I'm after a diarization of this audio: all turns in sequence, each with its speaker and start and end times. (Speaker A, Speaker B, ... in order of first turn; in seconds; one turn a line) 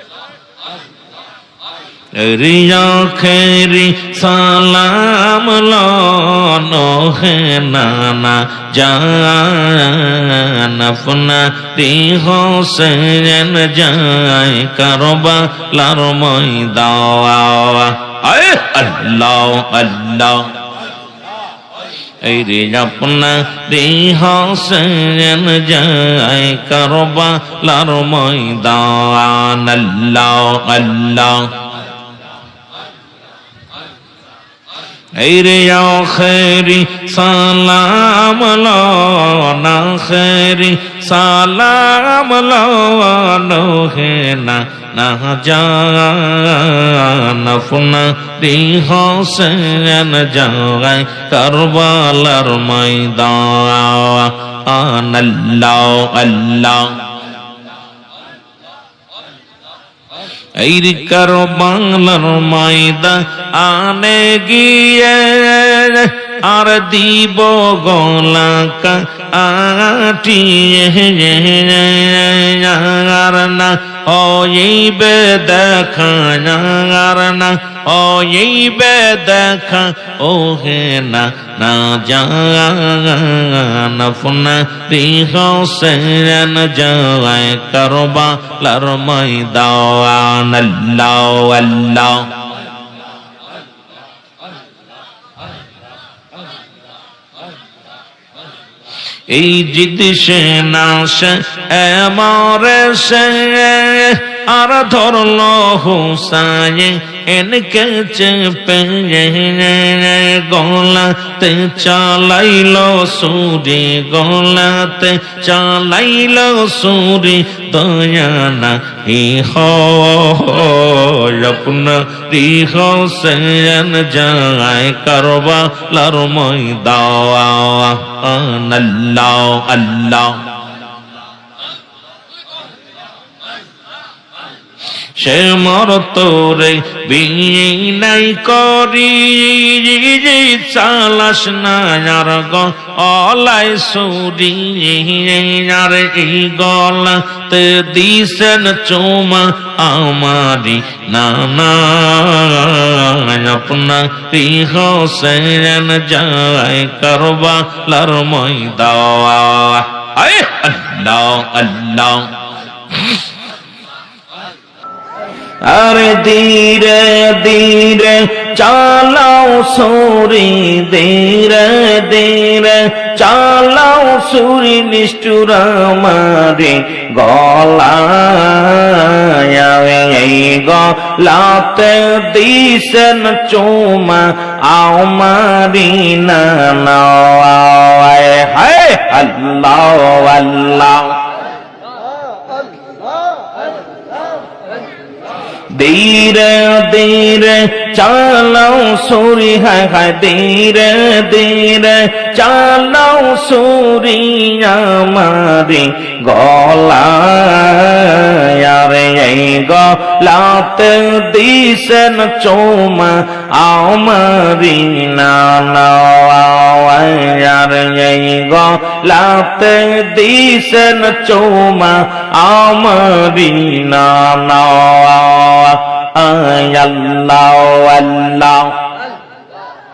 Speaker A: 2.1-20.5
Speaker A: 22.2-31.5
Speaker A: 35.1-57.0
Speaker A: 60.6-92.3
Speaker A: 99.3-130.4
Speaker A: 135.2-162.3
Speaker A: 165.6-191.2
Speaker A: 195.7-228.8